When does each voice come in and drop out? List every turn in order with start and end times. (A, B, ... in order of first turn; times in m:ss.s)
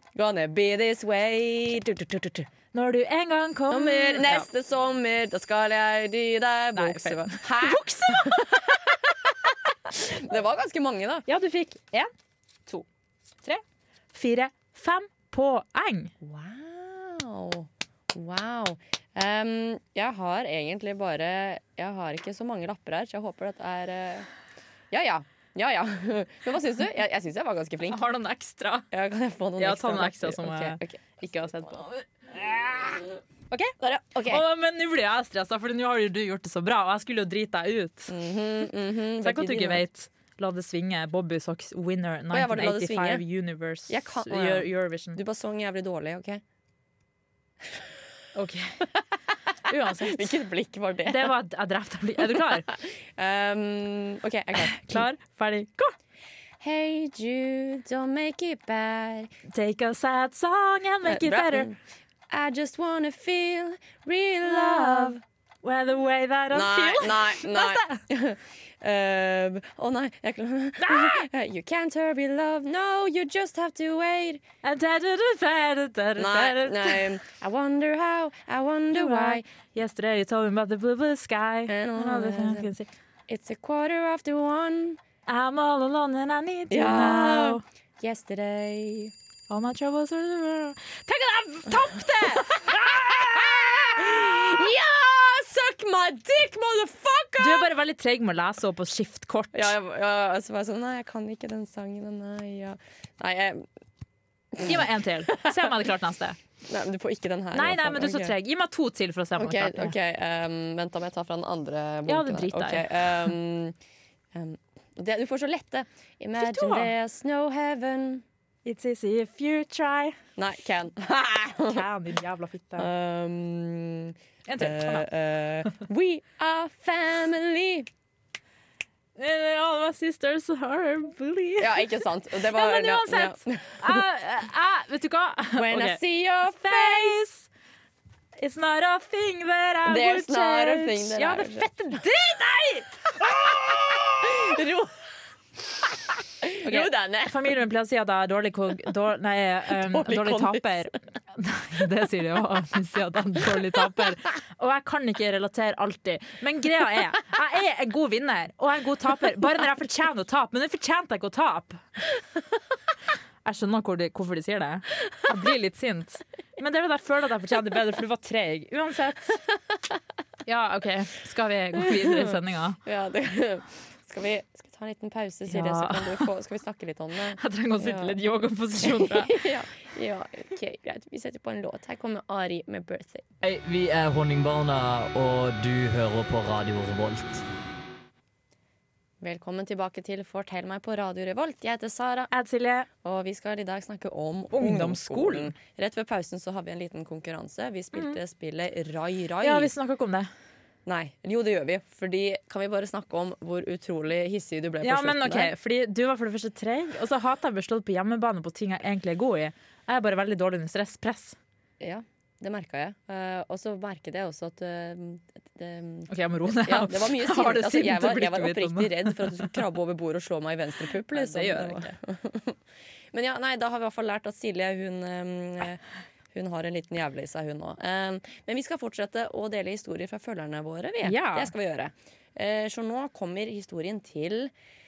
0:00.1-0:02.5 A
0:02.7-0:04.5 B
0:03.7-0:11.2 A
0:06.8-0:08.8 B
0:11.3-0:12.1 B
0:13.4-0:16.1 B
0:16.2-0:24.3 A
0:24.9-0:28.0 A
0:27.9-0:28.8 B
0:28.9-0:31.0 A
0:29.6-0:32.0 B
0:32.3-0:33.0 A
0:33.8-0:34.4 A
0:34.2-0:38.1 B
0:38.1-0:39.8 A
0:39.2-0:45.2 B
0:42.3-0:43.2 A
0:43.9-0:46.4 A
0:48.3-0:48.9 B
0:49.6-0:50.4 B
0:50.0-0:51.3 A
0:51.0-0:52.7 B
0:52.2-0:55.1 A
0:54.6-0:55.9 B
0:56.6-0:59.3 A
0:59.5-1:01.7 B
1:01.0-1:01.8 A
1:02.3-1:05.2 A
1:04.4-1:08.0 B
1:06.5-1:14.4 A
1:10.8-1:11.2 B
1:14.6-1:17.1 B
1:16.2-1:19.5 A
1:18.9-1:22.9 B
1:21.7-1:22.7 A
1:23.3-1:25.0 A
1:25.2-1:27.6 B
1:26.7-1:29.1 A
1:29.5-1:33.4 B
1:32.2-1:37.7 A
1:37.4-1:39.7 B
1:39.5-1:43.6 A
1:44.5-1:45.7 A
1:44.6-1:46.4 B
1:46.6-1:48.3 A
1:47.5-1:49.9 B
1:49.4-1:53.8 A
1:52.1-1:52.9 B
1:54.3-1:58.2 A
1:56.4-1:56.9 B
1:58.6-2:00.2 B
2:00.4-2:01.8 A
2:01.6-2:02.9 B
2:02.8-2:07.9 A
2:04.4-2:05.1 B
2:09.2-2:17.5 B
2:11.6-2:14.0 A
2:15.6-2:17.2 A
2:18.4-2:23.1 B
2:19.8-2:22.0 A
2:23.1-2:25.0 A
2:26.4-2:27.5 A
2:26.6-2:41.8 B
2:29.7-2:30.9 A
2:43.4-2:49.4 B
2:50.4-2:52.8 B
2:51.8-2:58.2 A
2:55.5-2:56.3 B
2:57.4-2:59.4 B
2:58.8-3:03.3 A
3:03.4-3:07.4 C
3:09.2-3:12.3 A
3:12.3-3:12.9 B
3:13.0-3:19.7 A
3:14.5-3:15.5 B
3:17.9-3:18.2 B
3:19.4-3:20.3 B
3:20.8-3:25.5 A
3:24.8-3:31.4 B
3:31.8-3:42.6 A
3:36.1-3:39.5 B
3:41.1-3:41.9 B
3:43.1-3:45.8 A
3:46.3-3:54.5 A
3:51.0-3:51.5 B